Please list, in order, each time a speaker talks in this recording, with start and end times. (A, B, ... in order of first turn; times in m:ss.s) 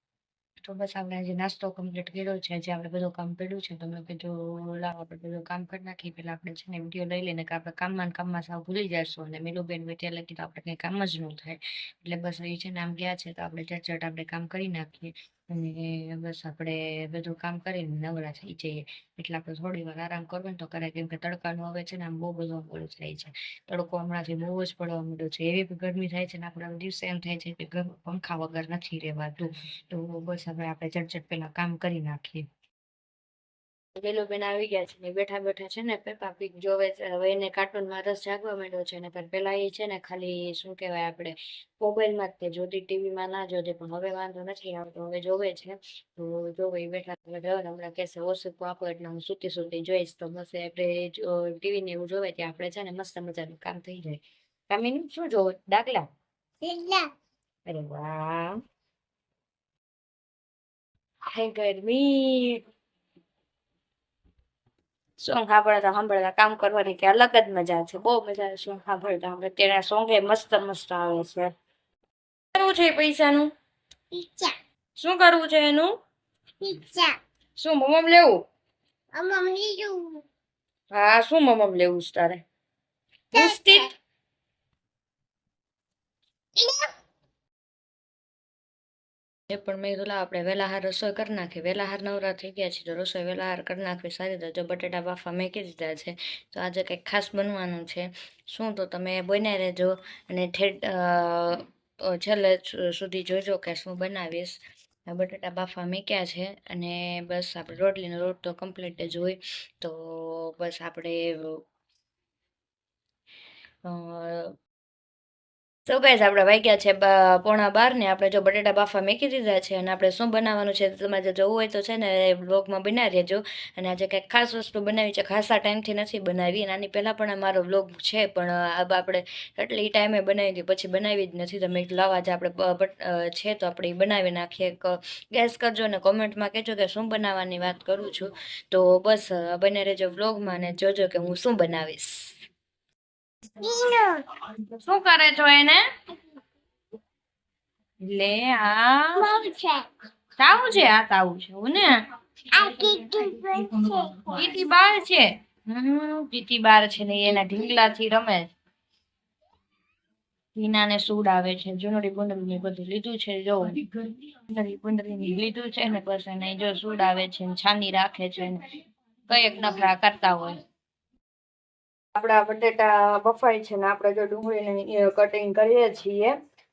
0:00.6-0:32.5 A
0:33.9-0:56.1 A
0:56.6-0:57.1 B
0:57.6-0:58.6 A
1:01.3-1:02.6 A
1:05.2-1:11.5 A
1:12.5-1:13.5 A
1:14.1-1:14.5 B
1:15.0-1:15.9 A
1:16.6-1:17.2 B
1:17.6-1:18.4 A
1:19.1-1:20.2 B
1:20.9-1:22.4 A
1:23.3-1:23.9 A
1:23.3-1:23.8 B
1:26.6-1:26.9 B
1:29.5-1:51.6 A
1:53.8-1:54.5 A
1:55.8-2:22.4 A
2:23.6-2:24.3 B
2:24.7-2:25.8 A
2:28.0-2:29.2 A
2:29.2-2:29.9 B
2:30.4-2:32.0 A
2:32.5-2:34.4 B
2:34.2-2:38.5 A
2:40.5-2:48.6 A
2:49.3-2:50.6 A
2:52.1-2:56.3 A